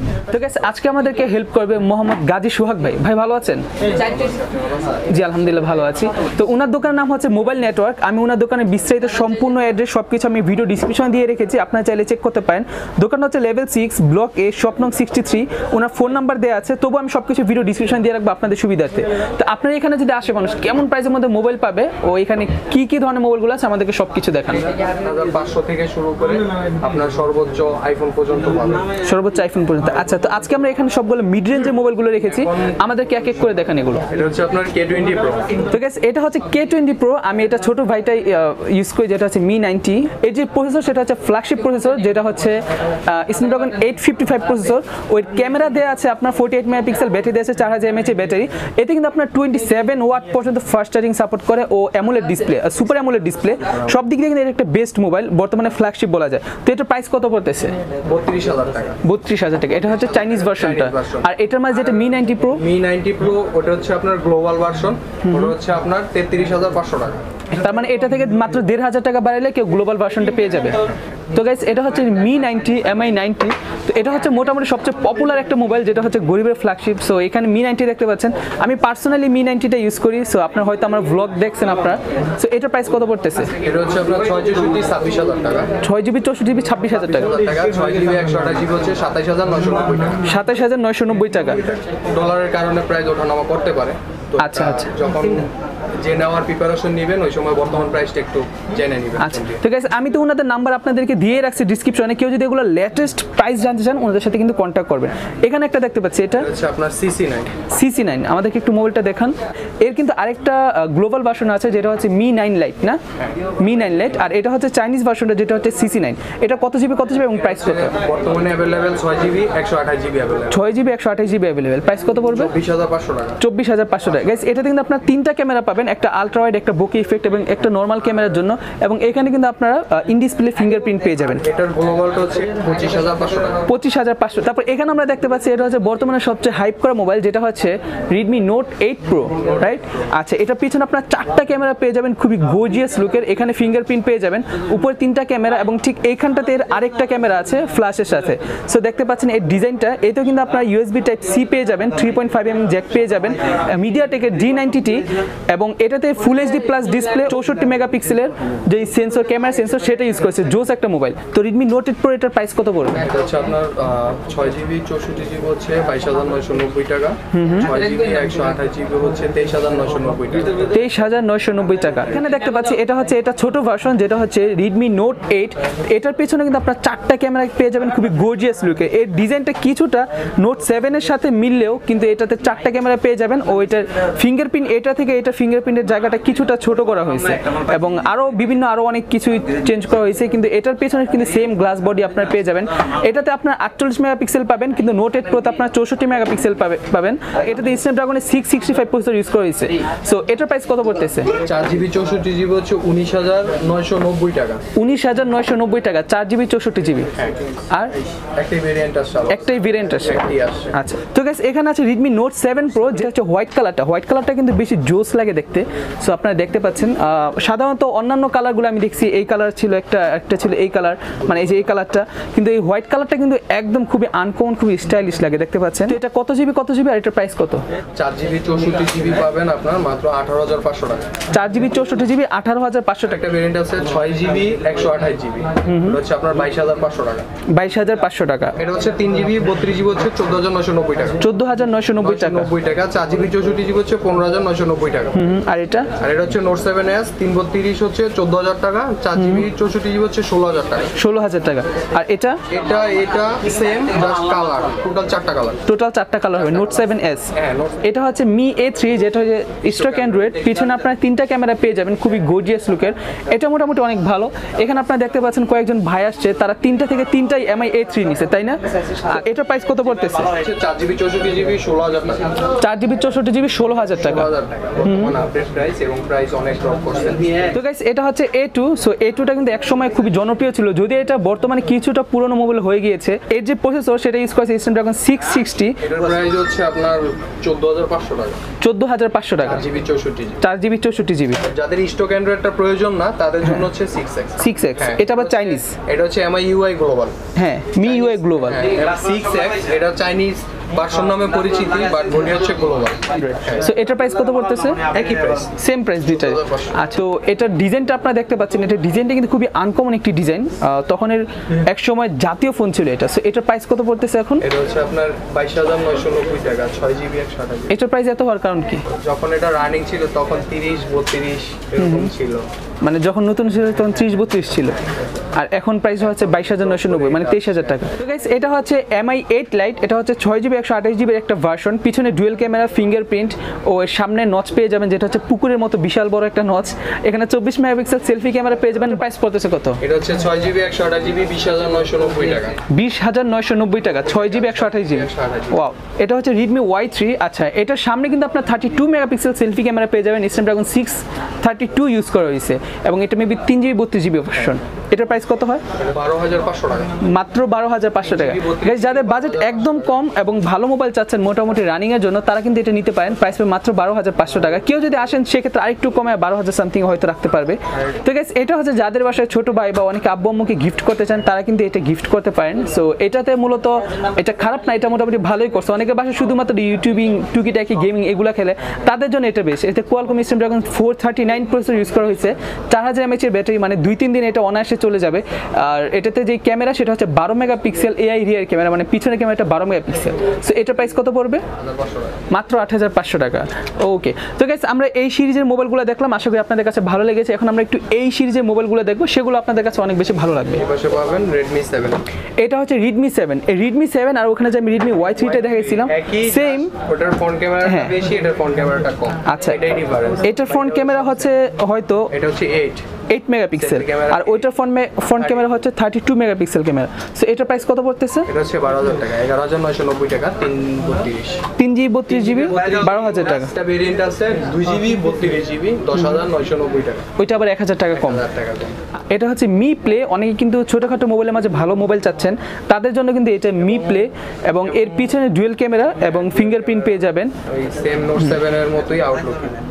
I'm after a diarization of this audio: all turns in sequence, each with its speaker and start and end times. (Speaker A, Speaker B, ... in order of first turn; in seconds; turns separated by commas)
Speaker A: 0.3-4.1, Speaker B: 4.0-4.5, Speaker A: 5.0-24.7, Speaker B: 24.9-28.9, Speaker A: 29.0-34.0, Speaker B: 34.1-35.6, Speaker A: 35.7-57.8, Speaker B: 58.0-59.0, Speaker A: 59.0-62.6, Speaker B: 60.1-61.3, Speaker B: 62.5-67.2, Speaker A: 65.2-65.5, Speaker A: 67.5-70.8, Speaker A: 71.3-83.5, Speaker B: 83.6-85.7, Speaker A: 85.8-87.3, Speaker B: 87.1-90.3, Speaker A: 90.2-91.8, Speaker B: 92.0-99.6, Speaker A: 94.4-94.9, Speaker A: 99.2-106.5, Speaker B: 106.3-107.5, Speaker A: 107.7-113.0, Speaker A: 113.6-118.0, Speaker B: 117.4-120.6, Speaker A: 120.5-122.5, Speaker B: 122.3-123.4, Speaker A: 123.4-131.4, Speaker B: 131.4-133.7, Speaker A: 133.7-163.1, Speaker B: 163.0-170.7, Speaker A: 167.3-167.7, Speaker A: 170.7-201.3, Speaker B: 201.4-204.6, Speaker A: 204.8-207.1, Speaker B: 207.1-207.4, Speaker B: 208.3-210.7, Speaker A: 209.3-210.2, Speaker A: 210.7-227.6, Speaker B: 227.9-231.1, Speaker A: 231.3-233.3, Speaker B: 233.1-237.2, Speaker A: 235.6-236.0, Speaker A: 237.5-238.6, Speaker B: 238.6-241.2, Speaker A: 241.2-242.5, Speaker B: 242.0-245.2, Speaker A: 245.1-245.9, Speaker B: 245.9-250.9, Speaker A: 249.2-249.4, Speaker A: 251.0-252.4, Speaker B: 252.5-255.6, Speaker A: 255.7-270.4, Speaker B: 256.4-256.8, Speaker B: 257.3-257.8, Speaker B: 259.7-260.7, Speaker B: 270.3-272.4, Speaker A: 272.6-274.3, Speaker B: 274.0-277.5, Speaker A: 274.8-275.1, Speaker A: 277.5-285.8, Speaker B: 285.8-288.4, Speaker A: 288.6-289.7, Speaker B: 289.4-290.4, Speaker A: 290.4-291.4, Speaker B: 291.4-297.1, Speaker A: 294.4-295.7, Speaker A: 297.4-298.7, Speaker B: 297.8-303.6, Speaker A: 303.1-314.4, Speaker B: 304.9-305.5, Speaker B: 306.0-306.9, Speaker B: 314.4-317.7, Speaker A: 317.7-318.9, Speaker B: 318.9-322.4, Speaker A: 321.8-322.1, Speaker A: 322.8-324.7, Speaker A: 325.3-339.8, Speaker B: 326.0-327.8, Speaker B: 339.8-342.6, Speaker A: 342.7-355.6, Speaker B: 344.1-345.6, Speaker B: 355.8-356.9, Speaker A: 357.0-391.4, Speaker B: 358.0-360.0, Speaker B: 391.5-392.2, Speaker A: 392.3-400.6, Speaker B: 400.5-402.0, Speaker A: 402.4-406.7, Speaker B: 405.3-411.3, Speaker A: 407.6-407.9, Speaker A: 409.2-409.6, Speaker A: 410.2-412.1, Speaker B: 412.1-412.9, Speaker A: 413.1-418.3, Speaker B: 413.5-414.5, Speaker B: 415.1-415.5, Speaker B: 418.3-421.4, Speaker A: 421.6-423.5, Speaker B: 422.1-427.0, Speaker A: 427.2-428.2, Speaker B: 427.9-428.8, Speaker A: 429.1-437.3, Speaker B: 437.4-439.6